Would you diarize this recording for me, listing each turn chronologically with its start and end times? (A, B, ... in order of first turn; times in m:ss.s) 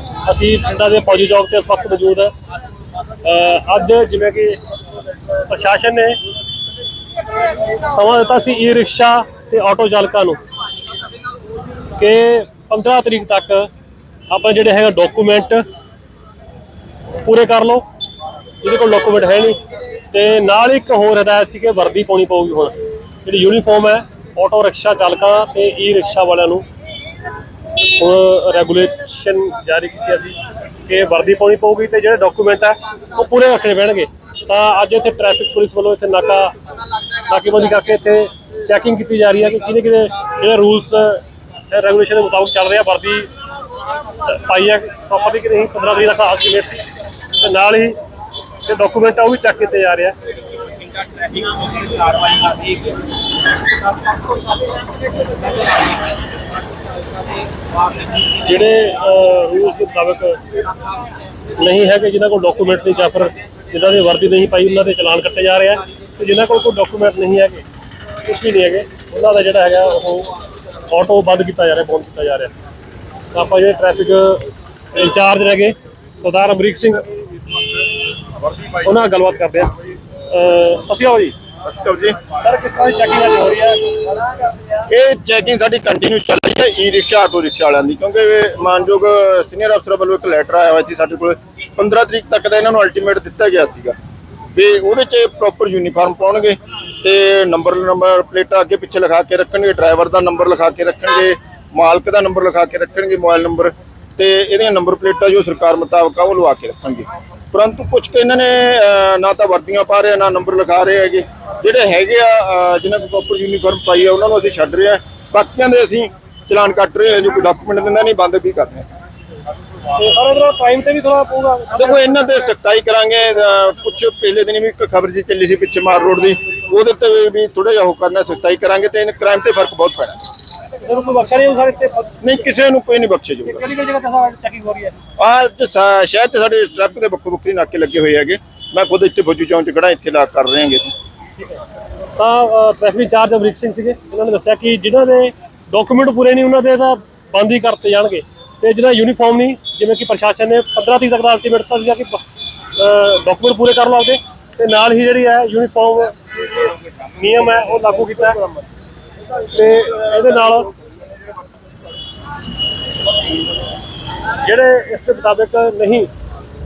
0:00.2-0:02.3 A
0:03.2-0:04.6 A
0:05.4-0:06.2 A
0:07.8-0:10.4 A
0:12.0-0:13.7 A
0:14.3-0:15.6 A
0:17.2-0:17.8 A
0:18.6-0:26.6 A
0:27.8-0:36.5 A
0:37.2-0:43.3 A
0:44.0-0:46.8 A
0:47.4-0:48.0 A
0:48.6-0:50.2 A
0:58.3-1:00.4 A
1:01.6-1:07.6 A
1:08.2-1:10.3 A
1:10.9-1:12.5 A
1:13.3-1:17.0 A
1:18.7-1:19.7 A
1:20.3-1:21.3 A
1:21.6-1:22.2 B
1:22.3-1:24.0 A
1:24.9-1:33.9 B
1:34.5-1:58.9 B
1:59.9-2:02.4 A
2:01.7-2:10.2 B
2:10.8-2:12.1 A
2:12.2-2:13.6 B
2:13.4-2:14.9 A
2:15.2-2:20.9 B
2:22.2-2:32.2 A
2:32.8-2:38.5 A
2:39.4-2:40.7 A
2:44.4-2:46.1 A